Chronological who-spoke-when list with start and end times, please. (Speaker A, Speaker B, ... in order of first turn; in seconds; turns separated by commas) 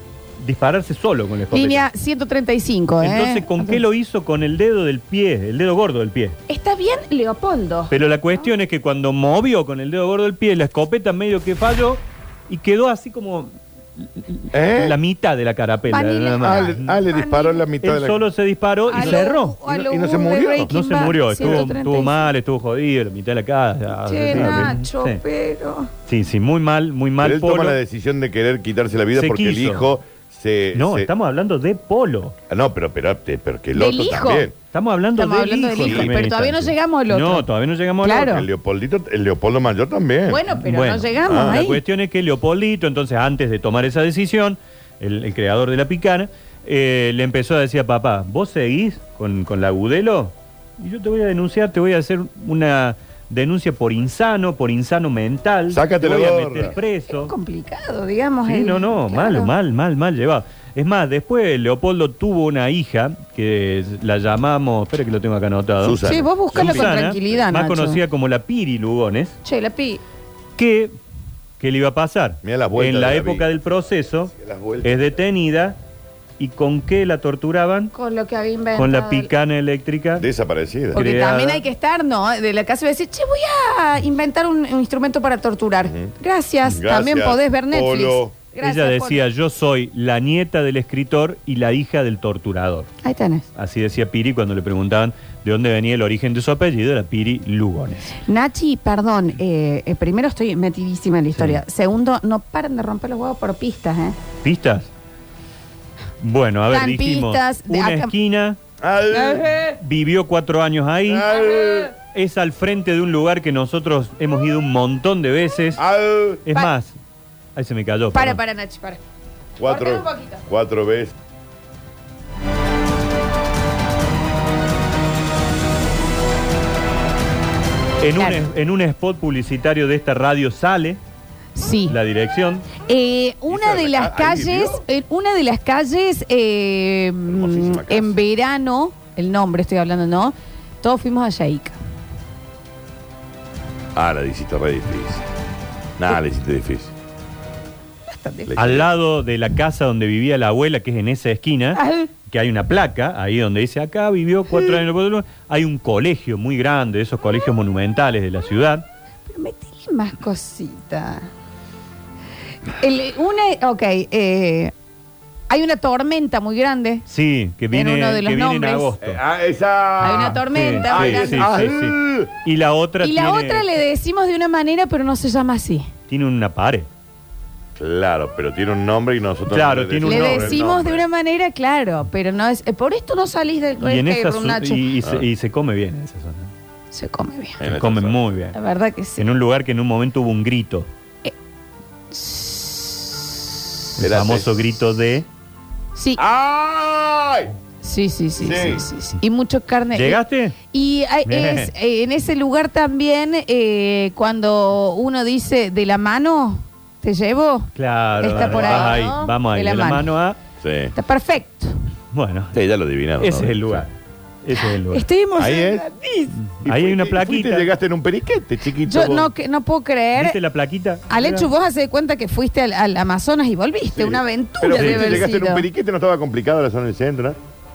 Speaker A: 0.4-1.9, Speaker B: 1.5-3.8, Speaker A: 3.0-6.4, Speaker B: 6.5-7.9, Speaker A: 7.9-17.0, Speaker C: 14.5-15.0, Speaker B: 15.9-17.7, Speaker C: 16.4-18.3, Speaker A: 17.8-19.6, Speaker B: 18.9-22.3, Speaker C: 18.9-20.7, Speaker A: 20.7-25.2, Speaker C: 21.4-21.7, Speaker B: 24.0-25.9, Speaker C: 24.3-24.7, Speaker A: 26.1-27.8, Speaker C: 27.2-31.1, Speaker A: 29.1-29.9, Speaker A: 30.7-32.4, Speaker C: 32.5-34.5, Speaker B: 33.7-34.5, Speaker A: 34.7-38.4, Speaker B: 35.2-37.5, Speaker C: 35.8-36.1, Speaker B: 38.0-38.5, Speaker C: 38.2-40.4, Speaker B: 40.3-41.8, Speaker A: 40.5-57.3, Speaker C: 41.2-41.6, Speaker C: 55.7-56.7, Speaker B: 57.1-59.5, Speaker A: 58.5-69.3, Speaker C: 65.8-67.0, Speaker B: 66.0-68.0, Speaker B: 69.4-70.0, Speaker A: 70.6-70.9, Speaker A: 71.6-75.8, Speaker C: 72.4-73.7, Speaker C: 74.3-75.2, Speaker A: 76.4-77.9, Speaker B: 77.9-79.3, Speaker A: 78.8-80.3, Speaker C: 80.2-81.0, Speaker A: 80.9-81.6, Speaker B: 80.9-89.2, Speaker C: 85.8-86.1, Speaker C: 86.7-88.3, Speaker A: 88.6-92.9, Speaker B: 93.0-93.5, Speaker A: 93.5-98.2, Speaker B: 98.2-104.2, Speaker A: 101.3-101.6, Speaker A: 104.4-104.9, Speaker A: 106.2-108.6, Speaker B: 106.7-108.1, Speaker C: 108.8-109.5, Speaker B: 109.1-109.8, Speaker A: 109.8-111.3, Speaker C: 111.1-111.9, Speaker B: 111.2-111.9, Speaker A: 112.0-115.8, Speaker C: 115.8-116.4, Speaker A: 116.5-117.0, Speaker A: 117.6-118.4, Speaker B: 118.1-119.0, Speaker C: 119.6-121.1, Speaker B: 119.6-120.4, Speaker A: 128.0-131.0, Speaker B: 128.2-128.4, Speaker B: 131.6-132.0, Speaker A: 131.9-132.7, Speaker B: 132.8-141.8, Speaker C: 133.5-134.8, Speaker C: 137.3-138.2, Speaker C: 143.9-145.2, Speaker C: 146.0-146.9, Speaker B: 148.1-148.6, Speaker C: 148.5-148.9, Speaker A: 148.6-158.8, Speaker B: 151.8-152.1, Speaker B: 154.5-154.8, Speaker B: 159.3-161.3, Speaker B: 162.7-164.7, Speaker B: 165.5-167.1, Speaker A: 167.1-169.2, Speaker B: 167.7-168.9, Speaker C: 169.0-172.3, Speaker B: 170.0-171.6, Speaker A: 170.0-173.7, Speaker B: 173.0-175.9, Speaker A: 176.1-176.9, Speaker C: 177.8-181.0, Speaker A: 179.5-180.6, Speaker B: 180.1-184.8, Speaker A: 183.8-186.5, Speaker B: 186.9-187.6, Speaker C: 187.6-188.3, Speaker A: 187.7-188.6, Speaker B: 188.5-189.2, Speaker A: 189.2-190.9, Speaker B: 192.1-193.8, Speaker A: 194.0-195.3, Speaker C: 194.0-194.7, Speaker B: 196.0-196.2, Speaker C: 196.2-197.5, Speaker B: 197.8-200.2, Speaker C: 198.4-198.8, Speaker A: 199.9-200.6, Speaker B: 200.7-210.1, Speaker A: 201.3-201.7, Speaker A: 207.8-210.4, Speaker C: 208.3-209.0, Speaker C: 210.6-210.9, Speaker B: 210.9-211.8, Speaker A: 212.1-212.6, Speaker C: 212.5-213.8, Speaker A: 213.2-213.9, Speaker A: 214.4-215.1, Speaker B: 214.6-216.4, Speaker C: 215.4-215.9, Speaker A: 216.4-217.7, Speaker C: 216.6-219.3, Speaker B: 218.8-220.4, Speaker A: 220.2-221.5, Speaker B: 221.1-225.7, Speaker C: 224.0-227.4, Speaker A: 224.8-225.3